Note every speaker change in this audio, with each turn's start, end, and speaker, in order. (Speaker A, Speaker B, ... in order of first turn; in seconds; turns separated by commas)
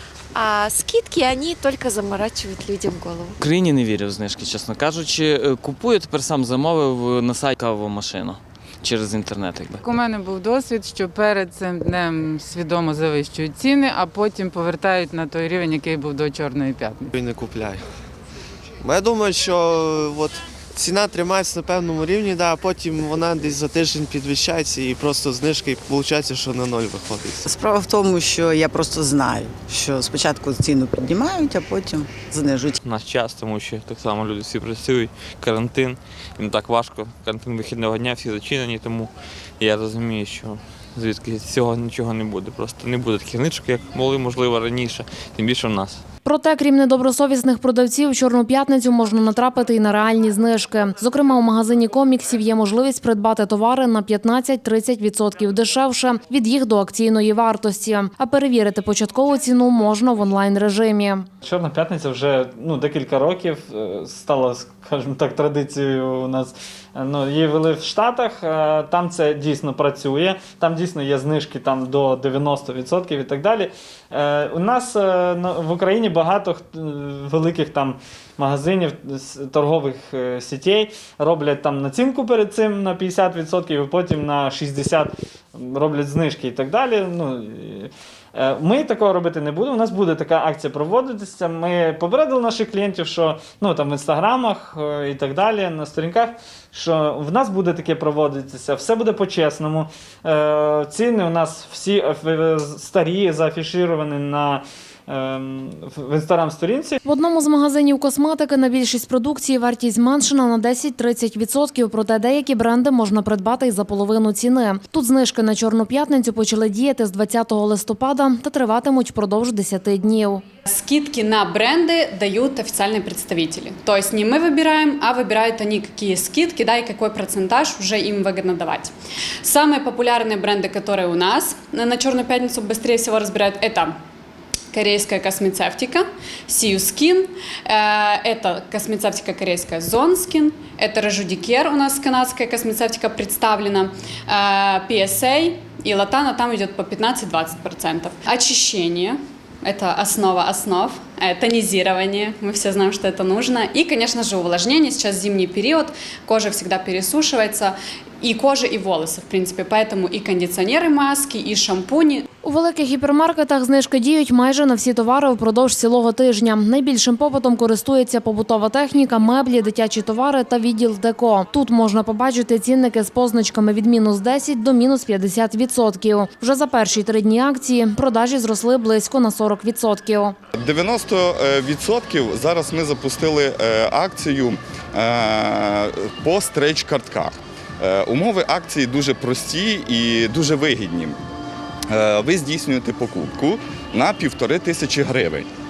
Speaker A: 0.3-3.4, Speaker B: 3.4-9.8, Speaker C: 9.8-17.1, Speaker D: 17.1-17.8, Speaker D: 18.8-27.5, Speaker E: 27.5-32.8, Speaker F: 32.8-46.0, Speaker G: 46.2-61.3, Speaker H: 61.4-107.0, Speaker G: 107.0-120.4, Speaker I: 120.7-134.0, Speaker I: 134.7-162.3, Speaker G: 162.4-180.3, Speaker J: 180.6-191.2, Speaker J: 191.9-195.5